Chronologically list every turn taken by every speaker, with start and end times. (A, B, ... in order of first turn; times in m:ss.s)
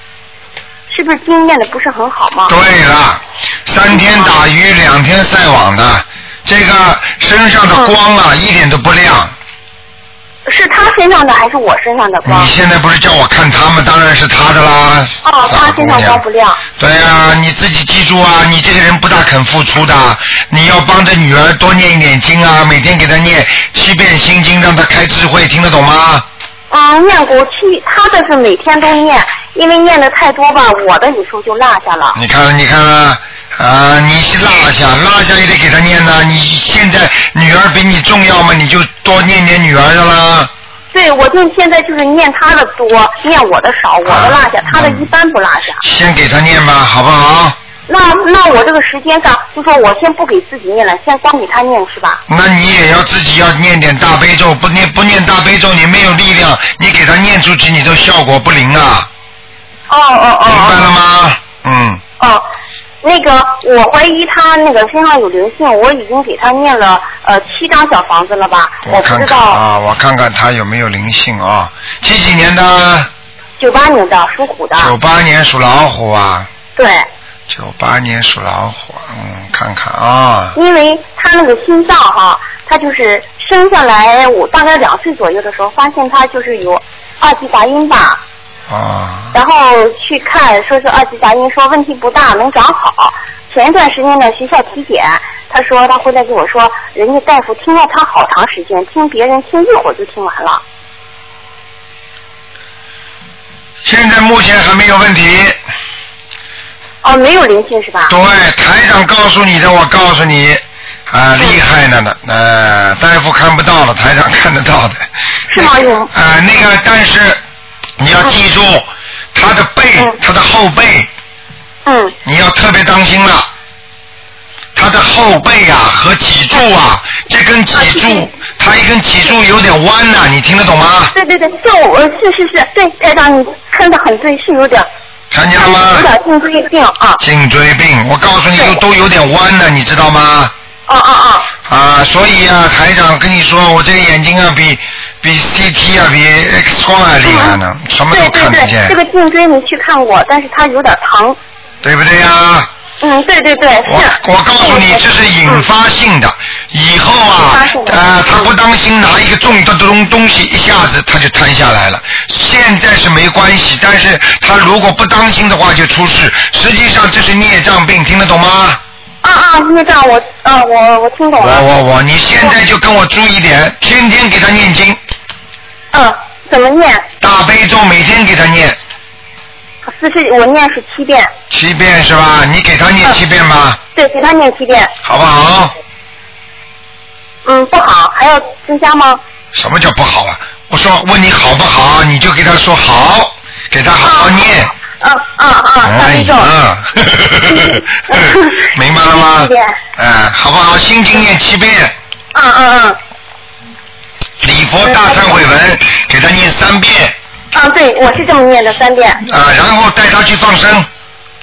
0:00.9-0:02.5 A
0:02.5-0:09.3 B
0:03.9-0:04.3 A
0:10.5-0:12.5 A
0:12.2-0:16.2 B
0:15.2-0:16.6 A
0:16.8-0:26.2 B
0:26.7-0:32.2 A
0:32.1-0:40.5 B
0:40.9-0:45.8 A
0:44.0-0:45.1 B
0:45.8-0:47.6 B
0:47.9-0:52.2 A
0:52.3-0:59.1 B
0:59.9-1:00.9 A
1:00.5-1:02.0 B
1:02.2-1:02.5 A
1:03.0-1:09.6 A
1:08.8-1:13.1 B
1:13.6-1:14.9 A
1:14.8-1:16.5 B
1:16.8-1:17.1 A
1:17.5-1:20.6 B
1:20.6-1:28.2 A
1:28.7-1:29.3 B
1:29.3-1:40.6 A
1:43.8-1:45.6 B
1:47.0-1:48.2 A
1:48.1-1:57.4 B
1:55.5-1:56.1 A
1:58.0-2:01.1 B
2:01.9-2:02.2 A
2:02.2-2:03.5 B
2:04.8-2:11.1 B
2:07.7-2:08.3 A
2:11.1-2:14.9 A
2:15.3-2:16.1 B
2:15.6-2:17.2 A
2:17.2-2:20.5 B
2:18.6-2:18.8 A
2:20.9-2:21.5 A
2:21.7-2:29.0 B
2:27.2-2:27.6 A
2:28.1-2:31.4 A
2:31.8-2:32.7 B
2:33.0-2:35.7 A
2:33.8-2:48.8 B
2:37.5-2:38.5 A
2:49.2-2:51.6 A
2:51.4-2:55.0 B
2:55.9-2:57.1 A
2:57.2-2:58.8 B
2:59.8-3:01.3 A
3:01.5-3:03.8 B
3:04.0-3:04.9 A
3:05.0-3:05.7 B
3:07.4-3:09.2 A
3:09.5-3:14.7 B
3:14.0-3:16.5 A
3:15.8-3:21.9 B
3:17.5-3:19.8 A
3:22.3-3:23.0 A
3:24.4-3:27.2 B
3:24.8-3:25.4 A
3:27.5-3:29.2 A
3:29.2-3:30.9 B